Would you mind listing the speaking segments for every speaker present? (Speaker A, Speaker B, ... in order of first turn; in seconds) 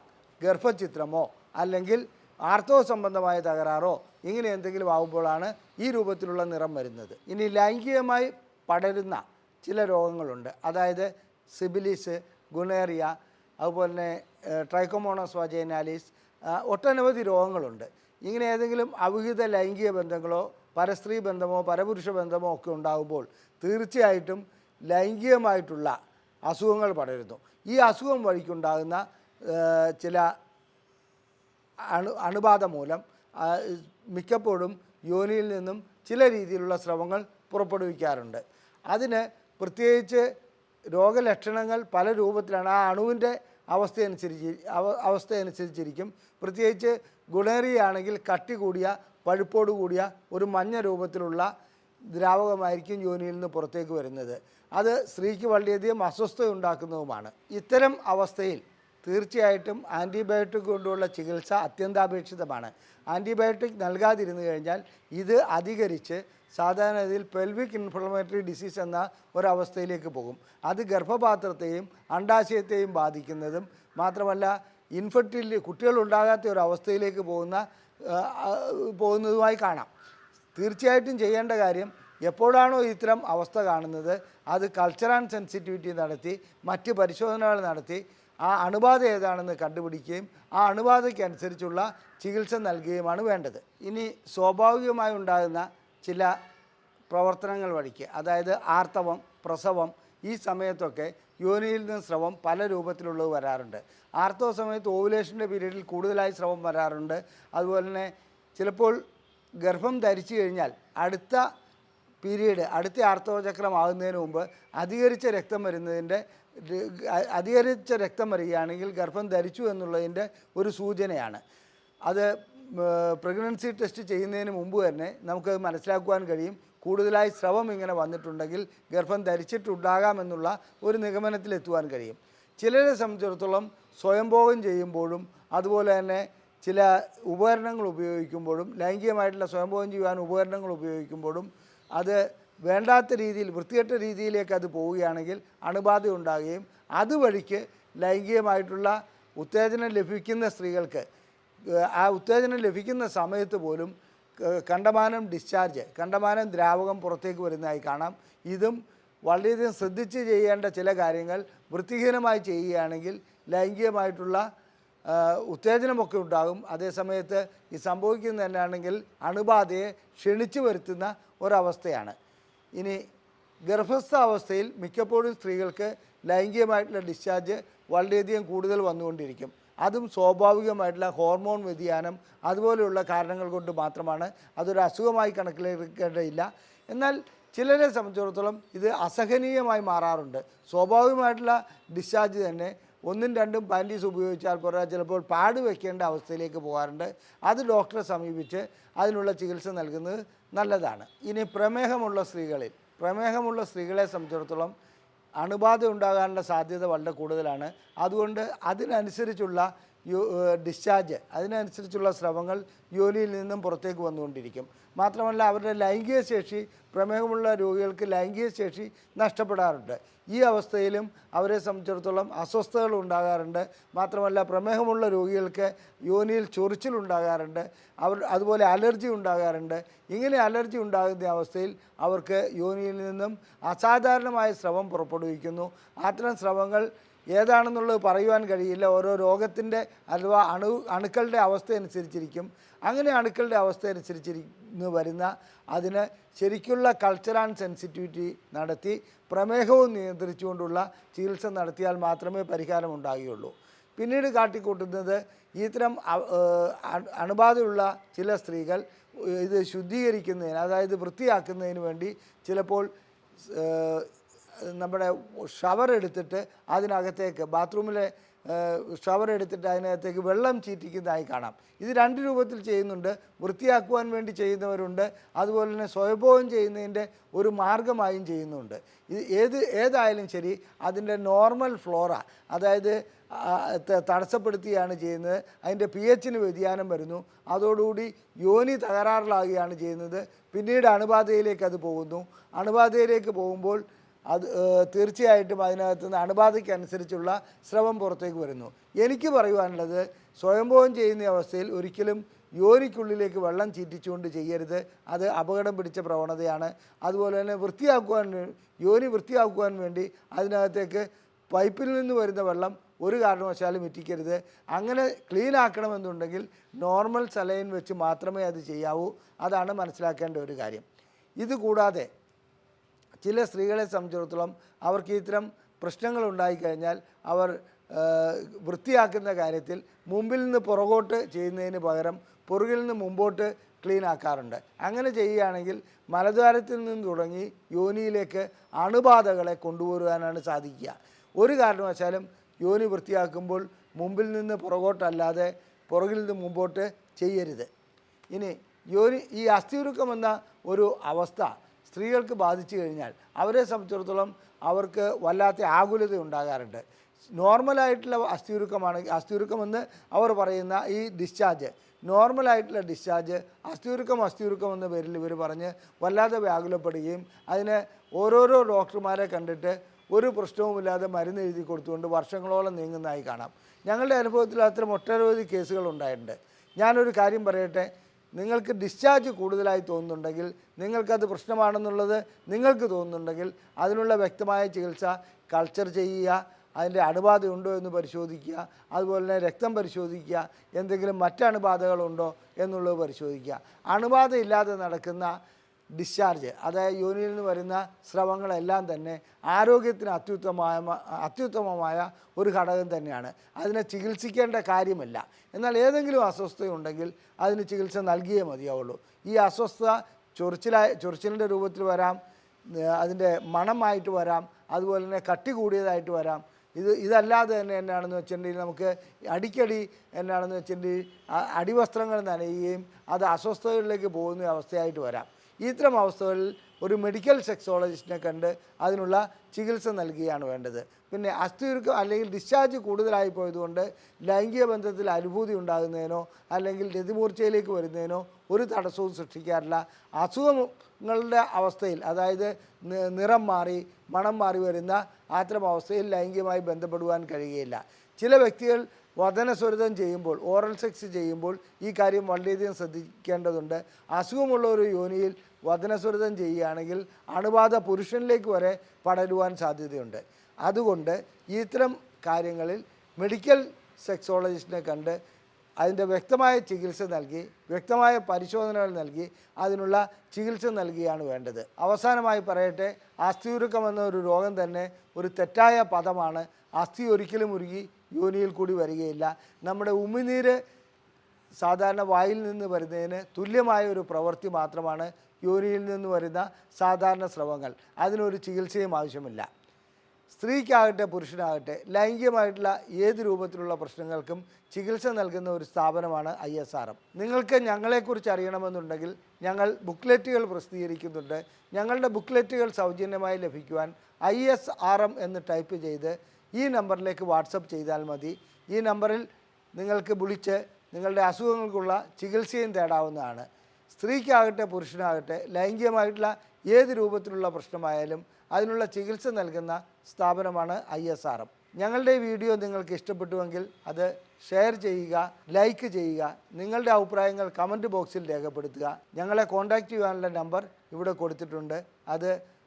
Speaker A: 0.4-25.9, 26.5-30.3, 31.9-40.3, 40.9-51.5, 52.1-79.9, 80.5-96.3, 97.1-109.0, 109.6-111.4, 112.2-121.4, 122.1-151.1, 151.7-164.4, 165.1-172.1, 173.6-204.7, 205.4-262.9, 263.4-264.1, 264.6-320.8, 321.4-322.1, 323.2-347.7, 348.3-356.8, 357.4-395.4, 395.9-412.2, 412.7-465.1, 465.8-480.6, 481.6-489.5, 490.3-532.4